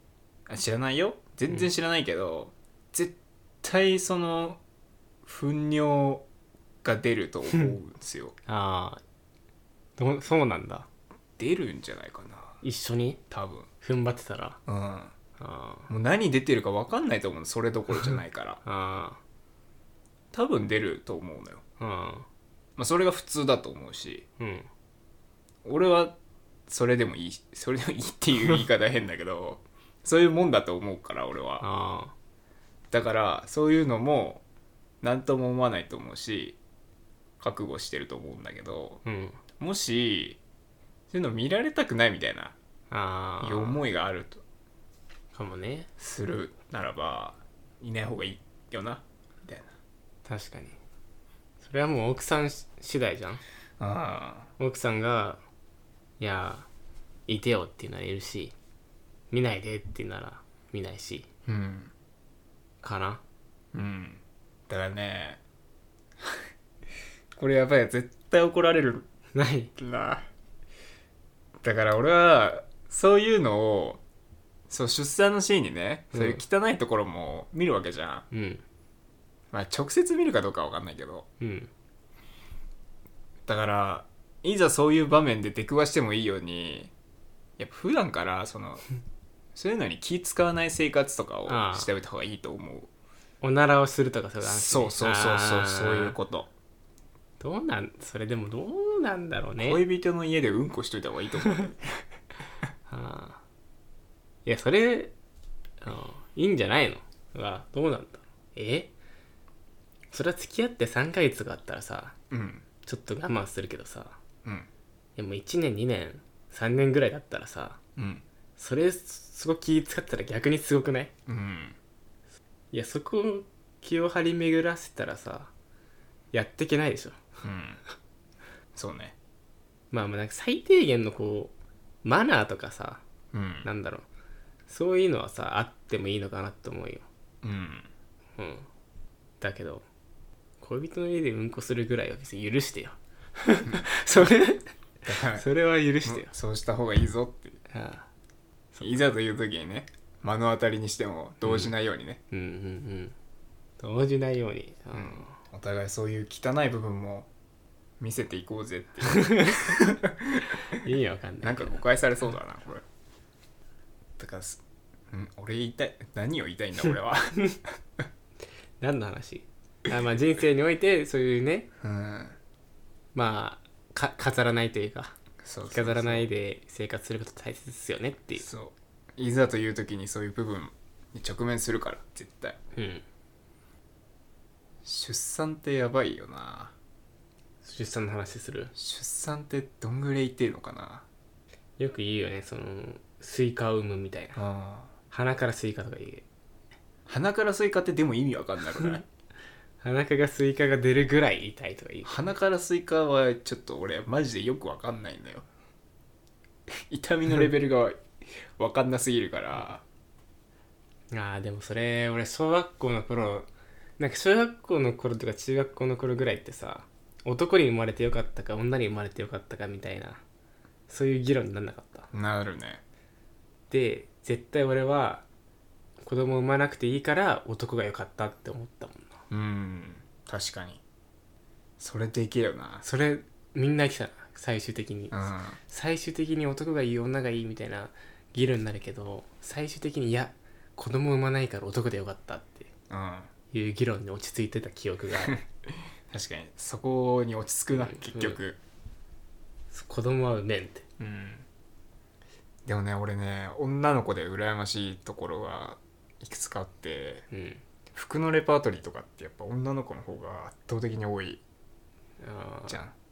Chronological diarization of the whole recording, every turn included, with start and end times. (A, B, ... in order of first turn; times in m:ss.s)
0:00.5-0:04.6 A
0:05.2-0:06.2 A
0:06.8-0:08.4 A
0:08.5-0:09.0 B
0:10.0-0:10.9 B
0:11.4-0:12.6 A
0:12.6-0:13.2 B
0:13.3-0:13.7 A
0:13.8-0:14.6 B
0:14.7-0:15.1 A
0:15.4-0:15.9 B
0:15.9-0:18.6 A
0:18.6-0:19.2 B
0:20.3-0:21.6 A
0:21.8-0:22.3 B
0:22.8-0:24.3 A
0:24.4-0:24.7 B
0:25.6-0:26.2 A
0:26.7-0:31.7 A
0:31.6-0:32.1 B
0:32.9-0:34.4 A
0:35.0-0:36.6 A
0:37.4-0:39.0 A
0:39.0-0:39.4 B
0:39.6-0:40.4 A
0:41.1-0:42.6 A
0:42.9-0:43.8 B
0:43.4-0:44.4 A
0:45.3-0:45.9 B
0:46.0-0:49.7 A
0:50.3-0:50.8 B
0:51.6-0:53.4 B
0:53.8-0:54.5 A
0:54.6-0:55.4 B
0:56.2-0:56.7 B
0:57.3-0:58.5 B
0:59.3-1:01.3 B
1:01.5-1:01.9 A
1:02.8-1:03.2 B
1:03.7-1:05.4 A
1:07.4-1:09.1 A
1:09.4-1:09.7 B
1:09.8-1:10.3 A
1:11.6-1:14.0 A
1:14.7-1:18.3 A
1:16.1-1:16.4 B
1:18.3-1:18.6 B
1:19.5-1:21.3 A
1:21.4-1:21.7 B
1:23.5-1:26.9 A
1:27.6-1:28.8 A
1:29.6-1:32.9 A
1:31.5-1:31.9 B
1:33.4-1:36.2 B
1:34.4-1:36.5 A
1:37.4-1:39.8 B
1:39.6-1:42.0 A
1:42.9-1:43.4 B
1:44.5-1:45.1 B
1:45.8-1:48.9 B
1:50.1-1:52.2 B
1:52.3-1:52.6 A
1:52.8-1:54.2 B
1:55.2-1:57.8 B
1:58.0-1:58.2 A
1:58.6-2:01.1 B
2:01.3-2:01.8 A
2:02.7-2:05.5 B
2:06.3-2:07.2 B
2:07.4-2:07.8 A
2:08.8-2:09.2 A
2:09.9-2:13.0 B
2:13.3-2:13.7 A
2:13.6-2:14.1 B
2:14.7-2:17.1 B
2:17.4-2:17.9 A
2:18.4-2:18.7 B
2:19.4-2:19.8 B
2:20.6-2:24.7 B
2:25.0-2:25.5 A
2:25.3-2:26.3 B
2:26.0-2:27.6 A
2:27.7-2:28.1 B
2:28.8-2:29.1 B
2:28.8-2:32.2 A
2:31.4-2:31.7 B
2:32.3-2:33.1 B
2:33.8-2:35.4 B
2:34.9-2:37.3 A
2:38.0-2:40.4 A
2:39.2-2:39.7 B
2:40.8-2:41.8 B
2:41.4-2:42.8 A
2:44.2-2:47.4 A
2:48.8-2:51.7 B
2:51.8-2:52.4 A
2:53.1-2:55.1 B
2:55.4-2:56.3 A
2:55.7-2:58.5 B
2:58.4-3:02.6 A
3:02.8-3:03.0 B
3:04.8-3:06.7 A
3:07.6-3:08.7 B
3:08.8-3:11.1 A
3:11.8-3:14.4 B
3:14.4-3:14.9 A
3:15.1-3:16.2 B
3:17.1-3:19.0 A
3:19.8-3:22.4 B
3:22.0-3:25.5 A
3:26.9-3:29.8 A
3:31.1-3:40.2 B
3:40.9-3:42.1 B
3:42.1-3:42.8 A
3:43.7-3:45.2 B
3:46.0-3:49.2 B
3:49.3-3:50.8 A
3:51.8-3:52.8 A
3:52.8-4:02.7 B
3:55.1-3:55.6 A
4:02.9-4:03.3 A
4:03.5-4:05.4 B
4:06.1-4:08.6 A
4:07.7-4:08.4 B
4:09.7-4:10.8 B
4:11.0-4:11.5 A
4:12.7-4:17.3 A
4:17.3-4:17.6 B
4:17.9-4:21.4 A
4:22.2-4:22.8 B
4:22.7-4:22.9 A